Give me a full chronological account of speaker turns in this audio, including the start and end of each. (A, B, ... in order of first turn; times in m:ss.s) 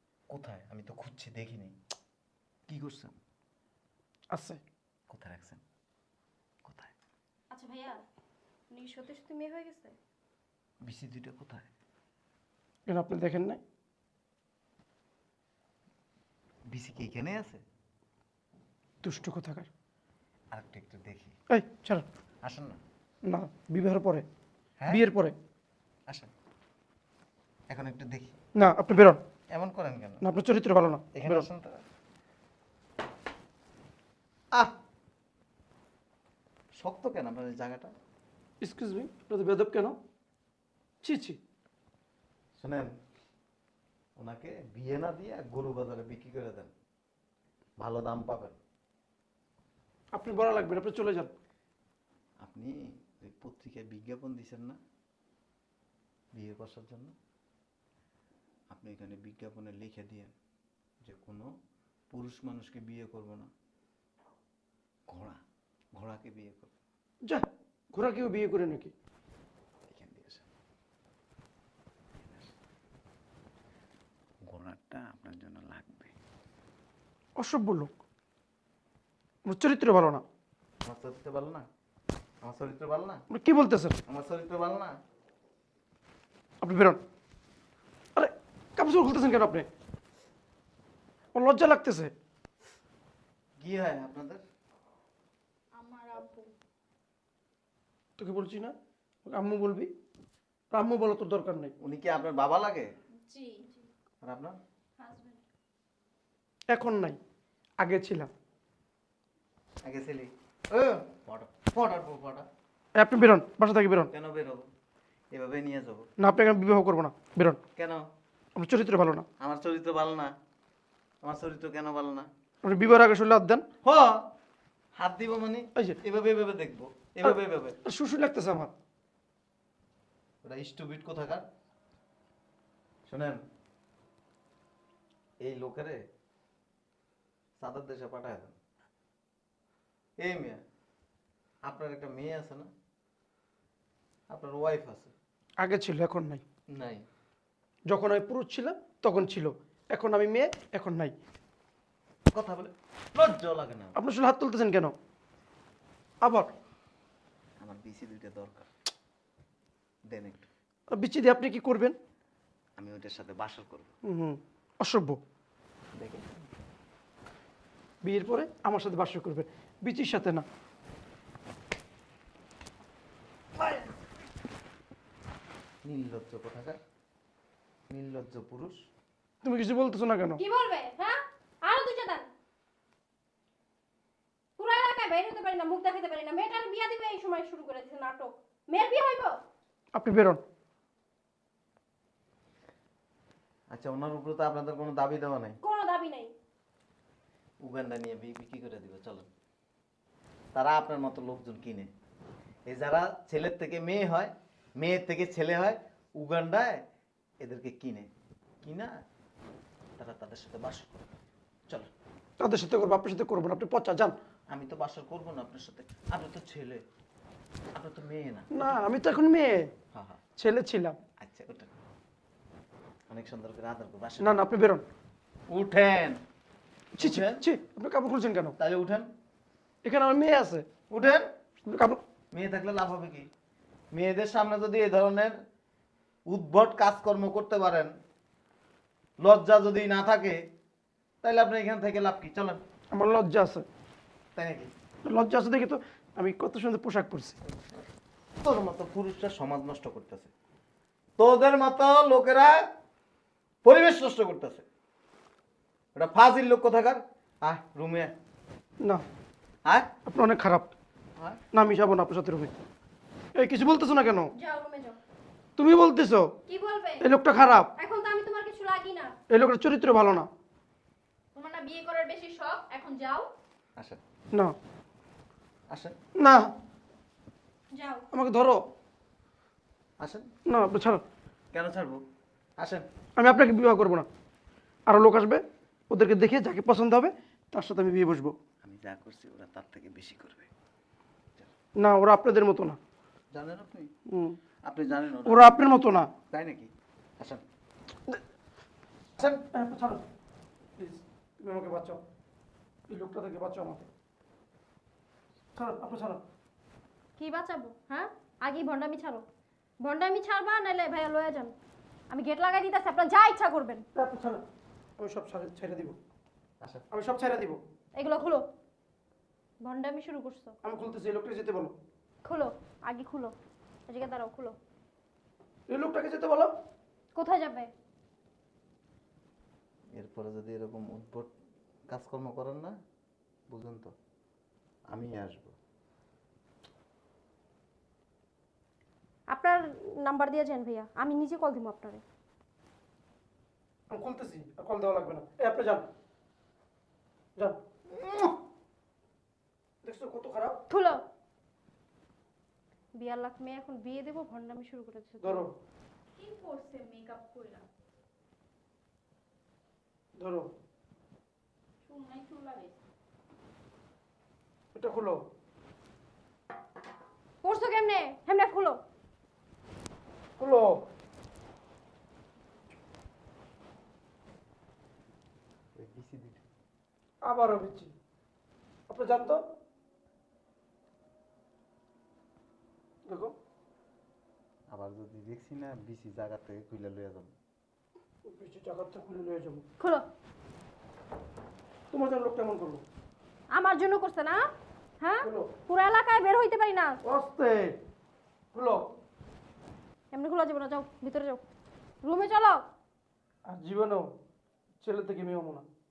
0:00.3-0:01.8 A
0:02.7-0:03.2 A
0:04.3-0:04.6 B
0:05.1-0:05.6 A
0:06.6-0:06.9 A
0:07.5-0:08.0 C
0:08.7-0:10.0 C
0:10.8-0:11.7 A
0:12.9-0:13.6 B
0:16.7-0:17.6 A
0:19.0-0:19.7 B
0:20.5-0:21.4 A
0:21.5-0:22.0 B
0:22.4-0:22.8 A
0:23.2-0:24.2 B
0:24.9-0:25.3 B
0:27.7-0:28.3 A
0:28.6-0:29.2 B
0:29.5-0:30.2 A
0:30.2-0:31.5 B
0:31.1-0:31.8 A
0:36.8-0:37.9 A
0:38.6-0:40.0 B
0:41.0-0:41.4 B
0:42.6-0:42.9 A
0:44.2-0:46.7 A
0:47.8-0:48.6 A
0:50.1-0:51.3 B
0:52.4-0:54.8 A
0:56.3-0:57.1 A
0:58.7-1:00.3 A
1:01.0-1:01.5 A
1:02.1-1:03.5 A
1:05.1-1:05.4 A
1:05.9-1:06.7 A
1:07.3-1:08.9 B
1:09.9-1:10.4 A
1:12.2-1:12.5 A
1:14.4-1:16.1 A
1:17.4-1:17.9 B
1:19.4-1:20.2 B
1:20.8-1:21.6 A
1:22.4-1:23.2 A
1:23.3-1:24.0 B
1:24.1-1:24.9 A
1:26.6-1:27.0 B
1:28.2-1:29.7 B
1:31.3-1:32.1 B
1:33.6-1:34.4 A
1:35.7-1:36.5 D
1:38.2-1:39.9 B
1:40.7-1:41.7 B
1:41.8-1:42.9 A
1:43.2-1:43.6 D
1:44.2-1:44.6 A
1:45.0-1:45.4 C
1:46.7-1:47.2 B
1:47.8-1:48.3 B
1:49.8-1:52.4 A
1:53.0-1:54.1 B
1:54.1-1:54.7 A
1:55.3-1:56.1 A
1:56.2-1:57.6 B
1:57.8-1:58.0 A
1:58.6-1:59.2 B
1:59.4-2:00.3 A
2:01.2-2:02.3 A
2:02.6-2:03.6 B
2:03.8-2:04.2 A
2:04.9-2:07.8 A
2:07.2-2:08.7 B
2:10.4-2:11.4 A
2:13.0-2:13.4 A
2:15.4-2:16.0 A
2:17.6-2:18.5 A
2:20.2-2:20.6 A
2:21.6-2:22.7 A
2:24.3-2:25.1 A
2:25.6-2:26.4 B
2:26.7-2:27.0 A
2:27.9-2:31.1 B
2:32.3-2:34.0 A
2:33.9-2:34.9 B
2:36.2-2:36.5 B
2:37.6-2:38.7 A
2:40.1-2:40.5 A
2:40.9-2:42.0 B
2:42.8-2:43.9 A
2:44.0-2:45.2 B
2:45.9-2:46.4 A
2:48.0-2:50.4 B
2:55.8-2:56.8 A
2:57.9-2:58.8 A
2:59.4-3:00.4 B
3:00.4-3:02.3 C
3:04.6-3:09.4 C
3:09.9-3:10.4 B
3:13.7-3:15.5 A
3:15.6-3:16.3 C
3:17.6-3:19.3 A
3:20.5-3:21.9 A
3:22.7-3:26.8 A
3:27.4-3:28.1 A
3:28.6-3:28.9 A
3:30.0-3:31.0 A
3:32.4-3:34.1 B
3:34.5-3:36.8 A
3:37.8-3:38.7 A
3:38.5-3:39.7 B
3:39.9-3:40.2 A
3:40.4-3:41.0 B
3:41.2-3:41.7 A
3:43.1-3:44.4 A
3:44.2-3:44.8 B
3:45.5-3:46.2 A
3:47.0-3:48.6 B
3:47.0-3:47.4 A
3:48.6-3:49.1 A
3:49.8-3:50.6 B
3:50.9-3:51.3 A
3:51.7-3:52.0 B
3:52.3-3:53.3 A
3:53.9-3:55.4 A
3:56.3-3:57.9 A
3:59.2-4:00.4 A
4:01.2-4:02.6 A
4:02.9-4:03.6 B
4:04.3-4:04.7 A
4:05.0-4:07.4 B
4:08.4-4:10.3 A
4:11.2-4:12.6 A
4:13.6-4:14.6 A
4:15.9-4:18.1 A
4:20.0-4:20.7 B
4:21.5-4:22.5 B
4:23.4-4:24.3 B
4:24.4-4:25.0 C
4:25.6-4:26.3 B
4:26.5-4:27.0 C
4:27.0-4:27.7 B
4:27.8-4:29.1 C
4:29.3-4:30.3 B
4:31.3-4:33.3 D
4:35.7-4:36.0 A
4:36.2-4:36.5 B
4:37.7-4:38.0 C
4:38.1-4:38.6 B
4:40.0-4:40.2 A
4:40.4-4:41.0 B
4:41.5-4:42.0 A
4:42.6-4:42.8 A
4:43.2-4:44.1 B
4:44.9-4:48.3 B
4:48.6-4:50.5 A
4:51.8-4:52.8 B
4:53.3-4:53.9 A
4:54.1-4:54.4 B
4:54.6-4:55.5 A
4:55.2-4:56.1 B
4:56.3-4:57.4 A
4:59.2-5:00.0 B
5:00.8-5:02.0 B
5:02.9-5:03.8 B
5:05.5-5:06.2 B
5:07.2-5:09.2 C
5:09.8-5:11.5 C
5:12.1-5:13.8 C
5:13.9-5:14.4 B
5:15.0-5:16.0 B
5:16.9-5:17.6 B
5:18.0-5:18.4 C
5:19.6-5:20.5 C
5:20.6-5:21.8 B
5:22.2-5:23.3 C
5:23.9-5:24.6 C
5:25.7-5:26.5 B
5:27.2-5:27.7 C
5:29.9-5:31.3 A
5:31.9-5:32.8 A
5:33.5-5:33.9 A
5:34.9-5:35.6 A
5:39.3-5:42.0 C
5:43.9-5:45.8 B
5:47.4-5:48.3 B
5:49.8-5:50.6 B
5:50.7-5:51.0 C
5:52.9-5:55.4 C
5:55.2-5:55.5 B
5:56.1-5:57.6 D
6:00.2-6:00.5 B
6:01.8-6:02.8 D
6:04.8-6:05.2 B
6:07.4-6:08.8 C
6:10.4-6:10.8 B
6:15.8-6:16.4 A
6:17.2-6:17.9 B
6:18.9-6:19.4 B
6:23.0-6:23.3 B
6:24.7-6:27.3 A
6:28.2-6:29.6 B
6:29.8-6:30.0 C
6:31.9-6:32.8 B
6:33.5-6:34.4 C
6:35.0-6:37.0 C
6:35.2-6:35.5 B
6:37.0-6:37.8 B
6:38.5-6:38.8 B
6:40.1-6:41.4 C
6:42.0-6:42.6 C
6:43.4-6:44.1 B
6:44.8-6:45.6 B